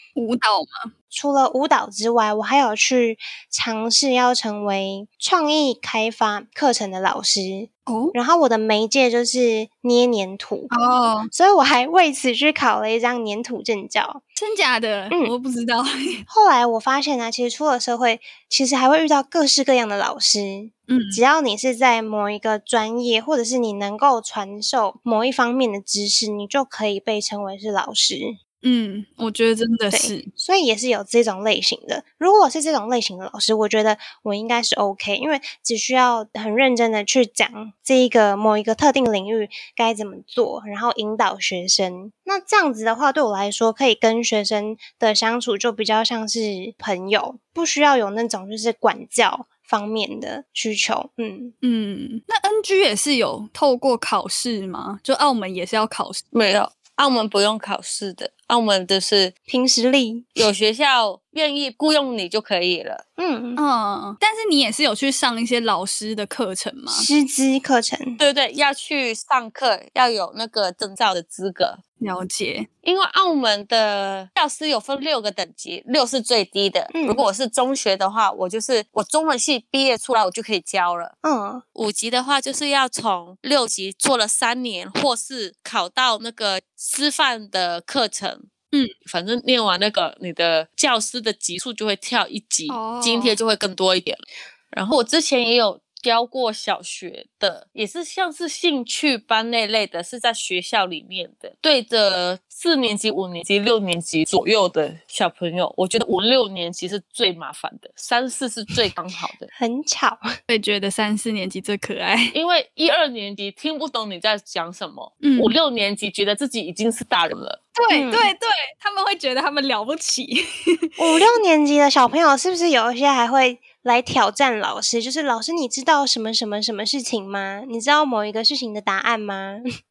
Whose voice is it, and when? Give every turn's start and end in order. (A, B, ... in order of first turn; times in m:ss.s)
0:00.2-0:00.9 A
0:01.1-0:10.7 B
0:07.9-0:08.1 A
0:10.7-0:11.3 A
0:11.3-0:14.2 B
0:14.4-0:16.2 A
0:16.3-0:28.4 B
0:20.9-0:21.2 A
0:28.6-0:30.3 A
0:29.9-0:51.5 B
0:51.6-0:56.2 A
0:56.3-0:59.3 C
0:59.5-1:00.3 B
1:00.4-1:03.0 C
1:03.2-1:03.6 B
1:03.6-1:07.1 A
1:06.9-1:08.2 B
1:08.2-1:11.8 C
1:12.0-1:12.7 A
1:12.8-1:21.1 C
1:16.9-1:17.2 B
1:21.2-1:21.6 B
1:21.7-1:28.5 C
1:29.0-1:49.5 C
1:32.7-1:33.4 A
1:49.5-1:50.2 B
1:50.5-1:52.3 A
1:52.3-1:57.6 C
1:55.2-1:55.5 A
1:57.8-2:01.0 A
1:57.9-1:58.3 B
2:01.0-2:09.6 B